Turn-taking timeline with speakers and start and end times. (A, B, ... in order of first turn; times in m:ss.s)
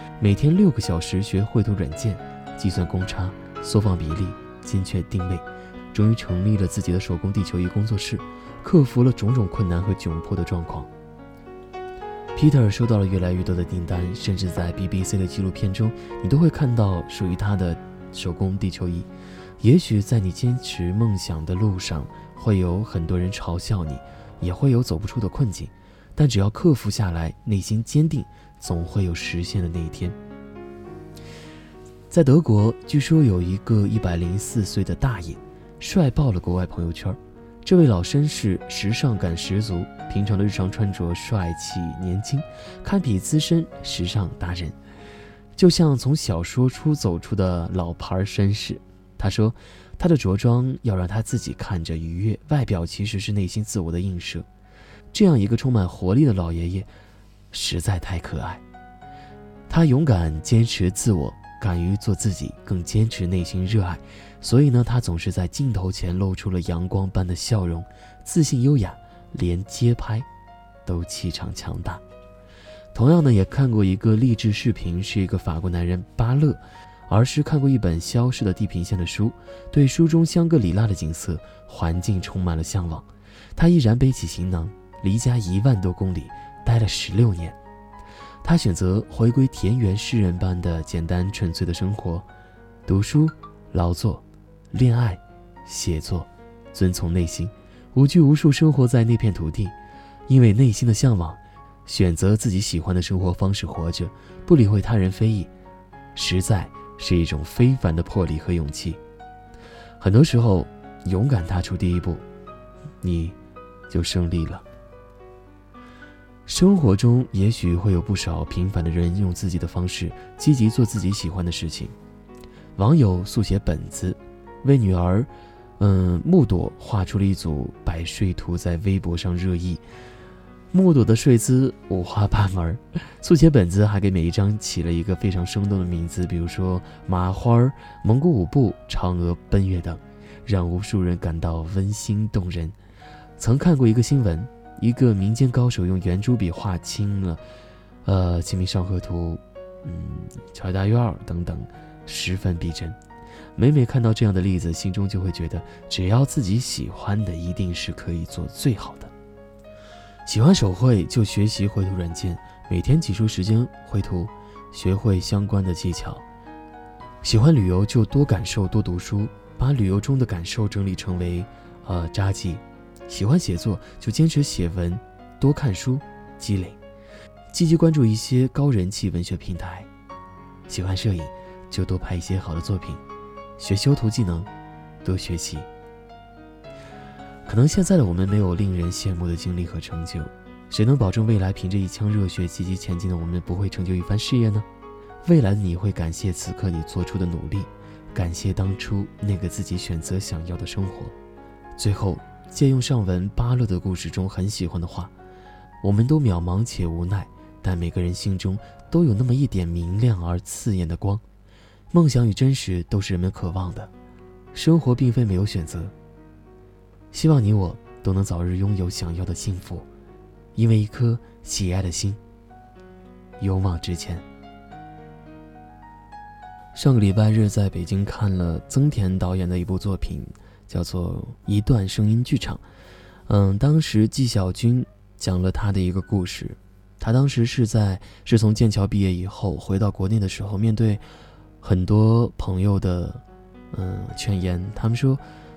0:00.2-0:10.9 A
0:12.4-0:19.1 A
0:19.6-0:30.2 A
0:32.1-0:44.8 A
0:45.6-0:54.5 A
0:55.1-0:56.9 A
0:57.5-0:58.6 A
0:59.7-1:10.3 A
1:10.9-1:12.0 A
1:12.9-1:27.6 A
1:28.4-1:32.3 A
1:32.9-1:39.8 A
1:40.3-1:45.5 A
1:46.2-1:49.0 A
1:50.0-1:52.2 A
1:53.0-1:53.4 A
1:53.9-1:54.6 A
1:56.5-2:02.0 A
2:02.8-2:09.8 A
2:10.7-2:22.8 A
2:23.4-2:27.4 A
2:28.0-2:33.0 A
2:33.6-2:39.1 A
2:40.3-2:46.2 A
2:47.2-2:56.8 A
2:57.5-2:59.9 A
3:00.7-3:03.0 A
3:03.6-3:04.5 A
3:05.0-3:05.7 A
3:07.5-3:14.7 A
3:15.2-3:21.2 A
3:21.8-3:25.1 A
3:25.8-3:31.2 A
3:31.9-3:33.9 A
3:34.5-3:35.9 A
3:37.1-3:39.9 A
3:40.6-3:42.2 A
3:43.4-3:44.2 A
3:46.8-3:52.6 A
3:53.3-4:01.1 A
4:01.6-4:05.2 A